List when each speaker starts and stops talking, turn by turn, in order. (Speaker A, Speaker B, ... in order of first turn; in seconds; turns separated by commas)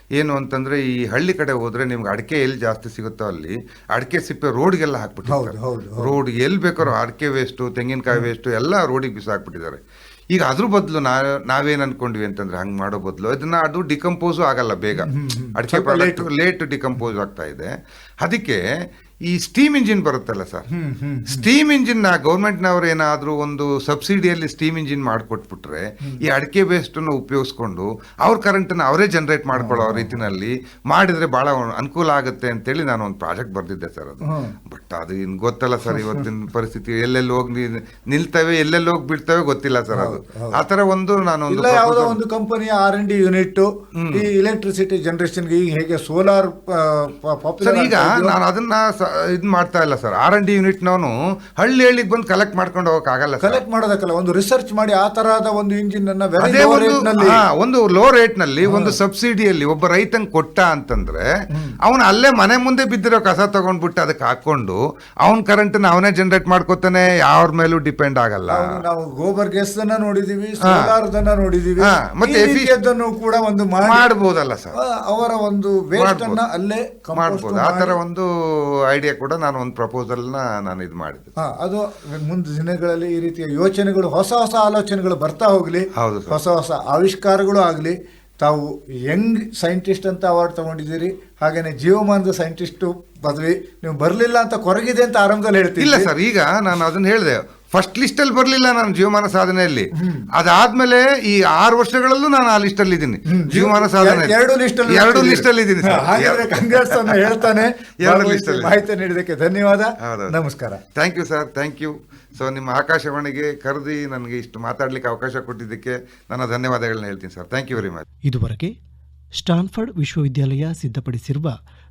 Speaker A: 0.1-9.8, Speaker B: 5.3-6.1, Speaker A: 10.3-18.6, Speaker B: 15.0-16.3, Speaker A: 19.2-20.7, Speaker B: 20.7-21.4, Speaker A: 21.3-42.2, Speaker B: 29.5-30.2, Speaker B: 34.2-34.5, Speaker B: 35.9-36.3, Speaker B: 39.9-40.6, Speaker B: 41.5-48.4, Speaker A: 44.0-44.3, Speaker A: 47.6-53.6, Speaker B: 53.4-57.4, Speaker A: 56.4-61.2, Speaker B: 58.6-59.0, Speaker B: 61.5-61.8, Speaker A: 61.8-68.8, Speaker B: 68.5-74.0, Speaker A: 70.6-70.9, Speaker A: 71.8-72.7, Speaker A: 73.8-74.7, Speaker B: 74.7-78.0, Speaker A: 75.9-76.4, Speaker A: 77.1-78.3, Speaker A: 78.9-81.4, Speaker B: 81.4-96.1, Speaker A: 85.9-86.4, Speaker A: 95.8-104.3, Speaker B: 100.0-100.2, Speaker B: 103.3-110.8, Speaker A: 104.8-107.4, Speaker A: 108.0-108.8, Speaker A: 110.0-110.3, Speaker A: 110.9-118.0, Speaker C: 118.3-118.7, Speaker C: 119.3-121.5